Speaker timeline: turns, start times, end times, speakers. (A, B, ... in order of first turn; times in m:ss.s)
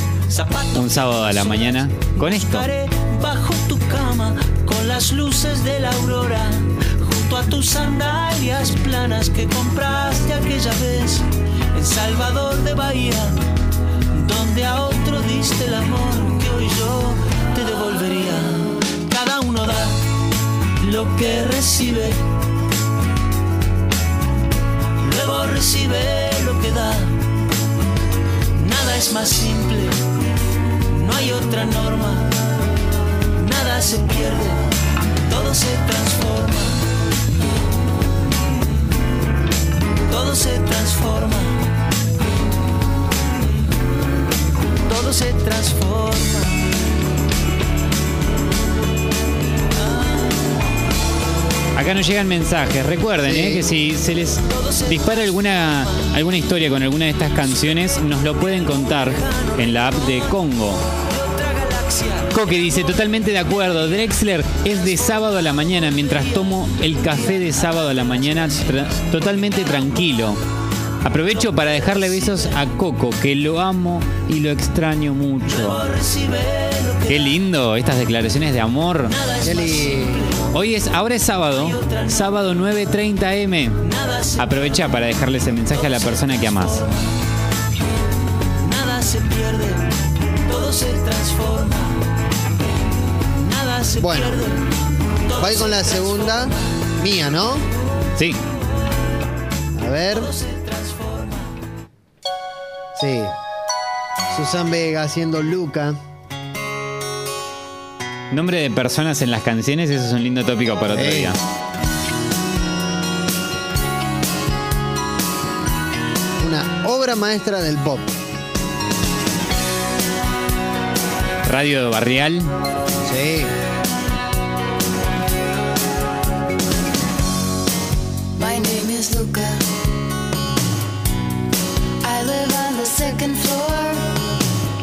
0:00.3-0:13.4 A
0:00.7-0:02.7 B
0:14.1-0:20.0 A
0:20.8-0:22.2 A
0:25.0-0:27.2 A
0:28.6-0:30.0 A
0:30.9-0:32.3 A
0:33.3-0:34.7 A
0:35.2-0:36.8 A
0:40.1-0:41.6 A
0:44.8-0:46.7 A
0:49.7-0:50.4 A
0:51.7-1:00.8 B
0:53.2-0:53.6 C
0:54.5-0:56.0 A
0:58.4-1:00.2 A
1:01.0-1:02.4 A
1:02.3-1:10.4 B
1:05.8-1:08.6 A
1:11.0-1:15.8 B
1:11.6-1:12.5 A
1:15.5-1:17.4 A
1:17.1-1:19.1 B
1:19.1-1:20.5 A
1:19.4-1:20.2 C
1:20.5-1:23.8 B
1:21.5-1:22.3 A
1:23.8-1:24.9 A
1:24.4-1:26.8 B
1:25.7-1:27.0 A
1:28.6-1:32.0 A
1:33.4-1:34.6 A
1:34.0-1:34.4 C
1:35.2-1:36.6 A
1:35.4-1:37.6 C
1:39.7-1:40.3 C
1:40.1-1:41.5 A
1:43.0-1:43.4 C
1:44.3-1:46.0 C
1:48.3-1:51.4 B
1:50.9-1:51.4 C
1:56.4-1:58.2 C
2:01.4-2:02.5 B
2:03.0-2:03.5 C
2:08.4-2:09.7 D
2:12.0-2:14.1 D